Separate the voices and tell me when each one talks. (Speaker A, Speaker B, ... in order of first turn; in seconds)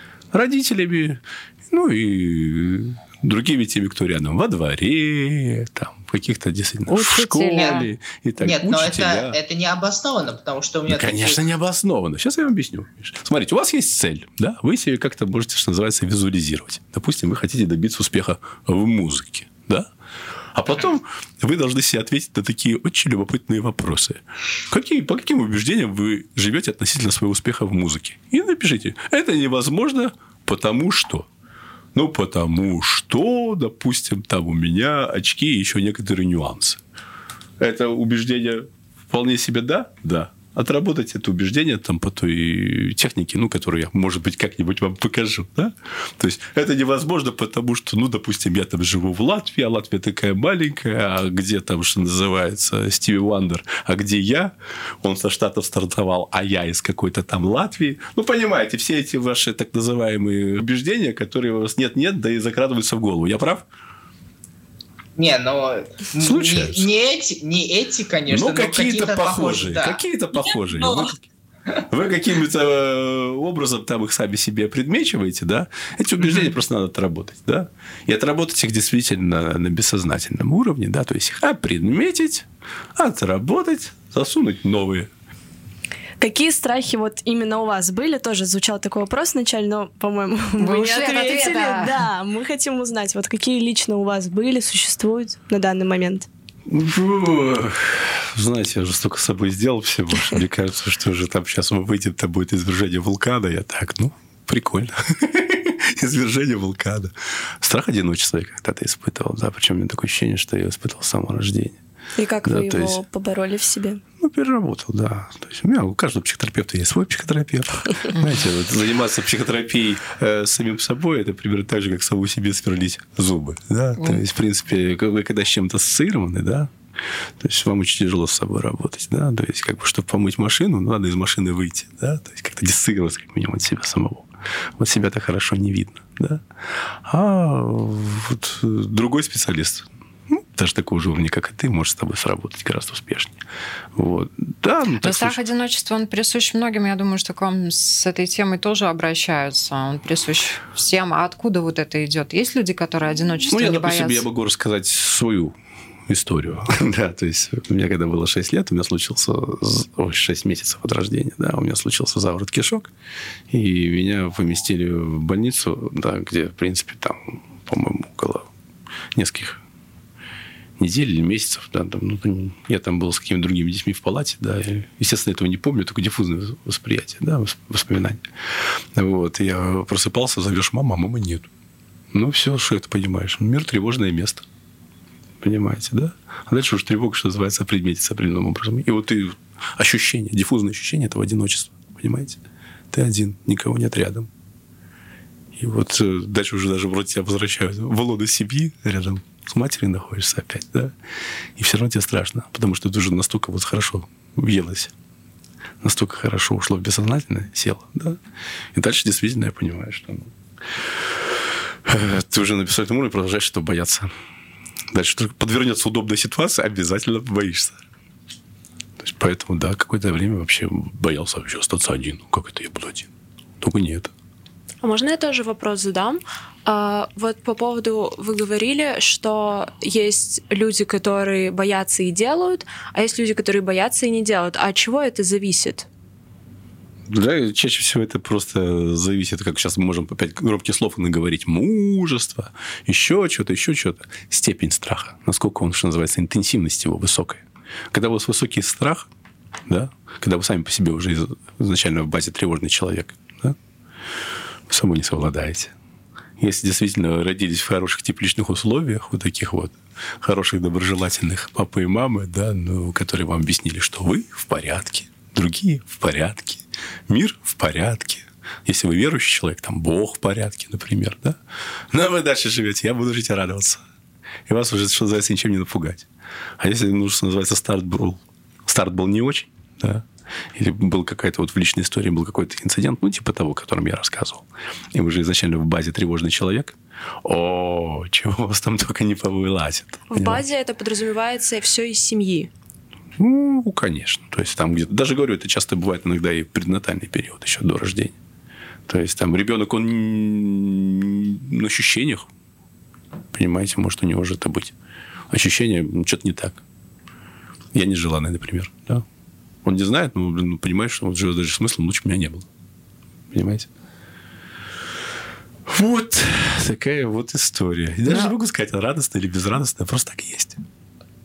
Speaker A: 0.3-9.4, 10.9-19.9, 20.5-31.3, 31.9-36.8, 37.6-63.6, 66.2-66.9, 68.3-71.2, 71.8-85.1, 96.7-111.8, 112.5-113.0, 114.2-126.7, 127.4-136.4, 137.0-143.4, 143.9-145.4, 153.5-155.5, 156.1-162.9, 163.5-168.5, 169.2-169.6, 170.8-181.5, 182.1-184.4, 185.4-192.4, 192.9-194.3, 195.6-200.9, 201.6-204.9, 205.8-208.2, 208.7-210.3, 211.9-214.1, 214.9-217.8, 219.0-223.1, 223.6-224.1, 237.1-249.1, 249.7-253.6, 254.7-255.7, 256.4-271.4, 271.9-273.8, 274.5-276.1, 276.6-290.4, 293.2-298.2, 298.9-302.3, 303.3-304.7, 305.3-306.6, 307.7-309.1, 309.6-312.5, 313.3-313.7, 315.7-320.6
Speaker B: 6.9-7.9, 90.6-92.0, 145.0-154.3
Speaker C: 8.4-11.4, 65.2-70.0
Speaker D: 86.2-96.3, 112.2-114.0
Speaker E: 224.8-235.9, 290.1-292.5